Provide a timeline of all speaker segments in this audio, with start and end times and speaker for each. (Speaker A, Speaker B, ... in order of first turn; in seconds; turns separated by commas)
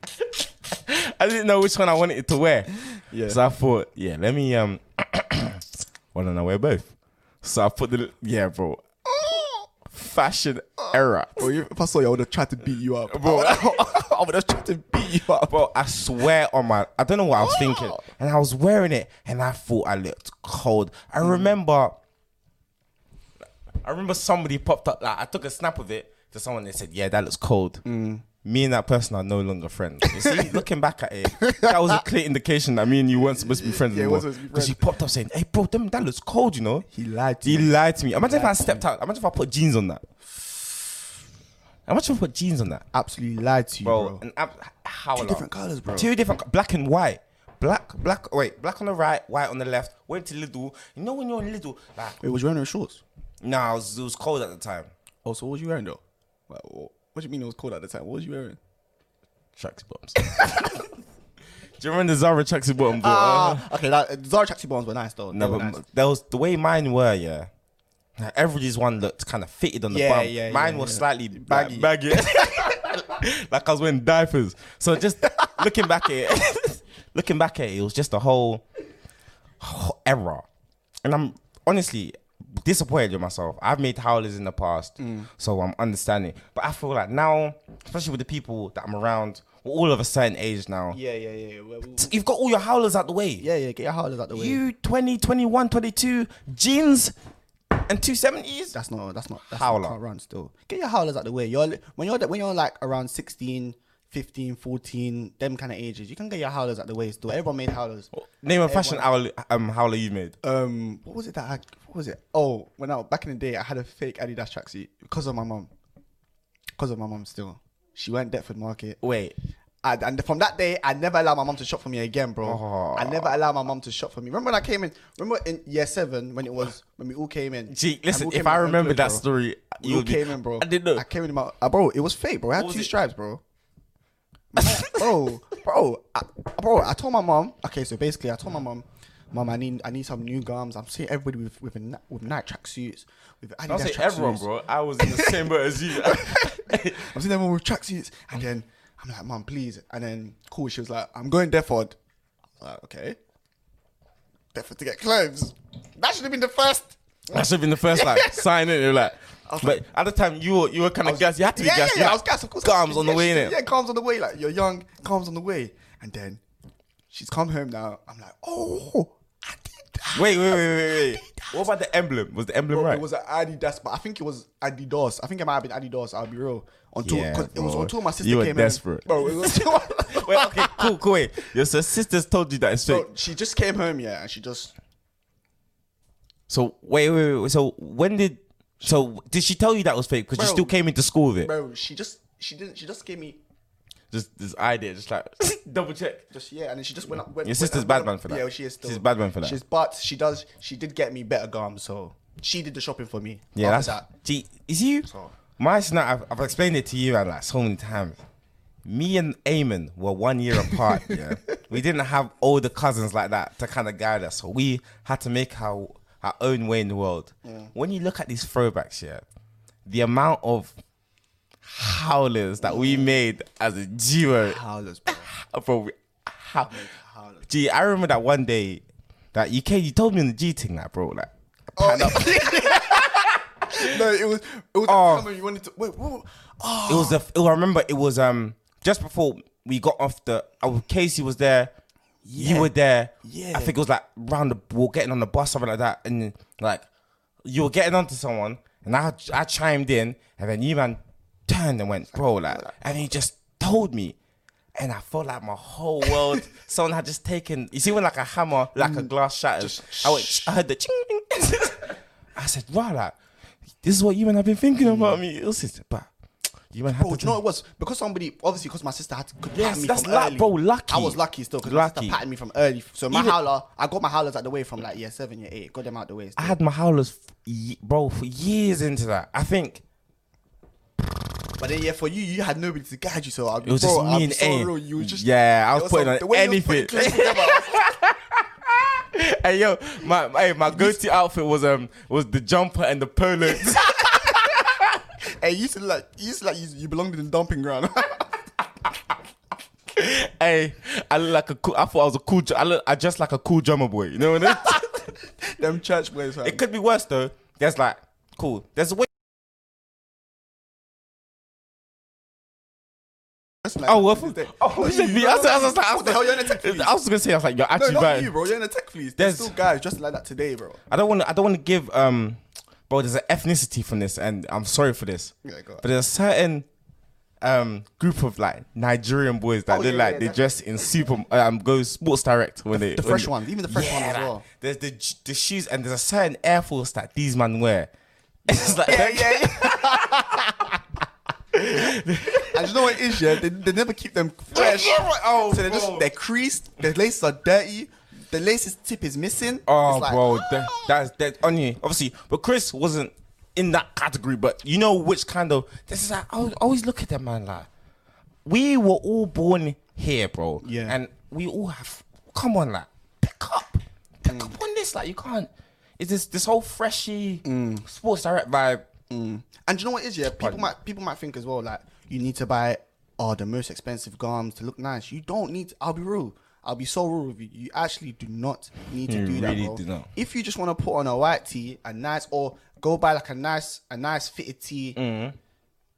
Speaker A: 0.4-2.7, Speaker B: 3.0-3.4, Speaker A: 3.3-8.8, Speaker B: 9.1-9.7, Speaker A: 9.9-11.5, Speaker B: 11.4-15.6, Speaker A: 13.1-13.9, Speaker A: 15.5-22.0, Speaker B: 17.4-18.0, Speaker B: 21.2-21.5, Speaker A: 23.8-27.8, Speaker B: 27.8-28.2, Speaker A: 28.4-36.9, Speaker B: 30.0-30.6, Speaker B: 31.4-32.0, Speaker B: 33.1-34.9, Speaker B: 36.9-38.8, Speaker A: 37.4-40.0, Speaker A: 41.9-42.8, Speaker B: 42.9-44.2, Speaker A: 43.8-52.2, Speaker B: 45.1-46.1, Speaker B: 52.2-53.0, Speaker A: 53.4-54.9, Speaker B: 55.2-58.6, Speaker A: 59.5-60.9, Speaker A: 61.8-63.6, Speaker B: 62.9-65.8, Speaker A: 65.3-67.5, Speaker A: 68.2-78.6, Speaker B: 69.9-72.8, Speaker A: 79.6-80.5, Speaker A: 81.0-91.0, Speaker B: 85.0-85.3, Speaker B: 90.9-92.1, Speaker A: 92.0-93.4, Speaker B: 93.4-94.6, Speaker A: 94.3-97.1, Speaker A: 97.7-98.7, Speaker B: 98.7-108.1, Speaker A: 99.5-100.0, Speaker A: 108.1-110.3, Speaker B: 108.6-109.1, Speaker B: 110.4-115.7, Speaker B: 116.8-119.0, Speaker A: 119.0-119.3, Speaker B: 119.8-129.2, Speaker A: 122.4-123.3, Speaker A: 127.7-131.0, Speaker B: 129.8-133.4, Speaker A: 132.6-132.9, Speaker B: 134.5-144.5, Speaker A: 134.6-135.1, Speaker A: 143.7-147.1, Speaker B: 145.0-151.9, Speaker B: 152.6-153.2, Speaker B: 154.5-158.4, Speaker A: 157.3-163.6, Speaker B: 159.5-159.8, Speaker B: 161.0-166.4, Speaker B: 167.1-171.6, Speaker A: 170.1-173.0, Speaker B: 172.7-180.9, Speaker A: 177.0-183.1, Speaker B: 182.9-184.7, Speaker A: 186.5-191.5, Speaker B: 190.3-190.8, Speaker B: 191.4-193.4, Speaker A: 194.1-196.2, Speaker B: 196.3-204.1, Speaker A: 197.4-199.6, Speaker A: 203.5-208.2, Speaker B: 205.0-205.3, Speaker A: 208.8-219.2, Speaker B: 210.7-211.6, Speaker B: 217.4-217.7, Speaker A: 219.8-220.7, Speaker A: 221.6-226.8, Speaker B: 222.6-223.2, Speaker B: 224.4-225.3, Speaker B: 226.6-227.5, Speaker A: 227.5-228.8, Speaker A: 229.3-233.9, Speaker B: 231.8-237.2, Speaker A: 234.8-235.3, Speaker A: 236.9-241.7, Speaker B: 242.2-242.7, Speaker A: 242.3-246.8, Speaker B: 243.2-243.8, Speaker A: 247.4-254.2, Speaker B: 252.4-252.8, Speaker A: 254.7-263.1, Speaker B: 256.1-256.4, Speaker B: 258.8-260.5, Speaker A: 263.8-266.1, Speaker B: 264.8-265.2, Speaker A: 266.7-267.4, Speaker B: 266.9-276.6, Speaker A: 269.5-272.2, Speaker A: 273.1-273.4, Speaker A: 276.4-279.8, Speaker B: 281.6-287.9, Speaker A: 283.6-294.8, Speaker B: 290.7-291.0, Speaker B: 293.8-294.6, Speaker B: 295.4-298.4, Speaker A: 299.9-305.0, Speaker B: 304.4-306.6, Speaker A: 306.4-309.1, Speaker B: 313.6-316.9, Speaker A: 313.9-318.3, Speaker B: 317.7-320.8, Speaker A: 319.2-319.5, Speaker A: 320.9-326.6, Speaker B: 325.4-325.8, Speaker A: 327.4-337.9, Speaker B: 329.7-330.5, Speaker B: 332.7-334.4, Speaker A: 338.5-340.7, Speaker B: 338.5-340.7, Speaker A: 341.5-343.4, Speaker B: 342.4-350.9, Speaker A: 344.5-346.1, Speaker A: 349.7-357.7, Speaker A: 358.4-368.9, Speaker B: 360.6-361.0, Speaker B: 364.2-364.6, Speaker B: 367.4-367.9, Speaker B: 369.1-385.0, Speaker A: 370.4-370.7, Speaker A: 379.1-380.1, Speaker A: 384.9-385.4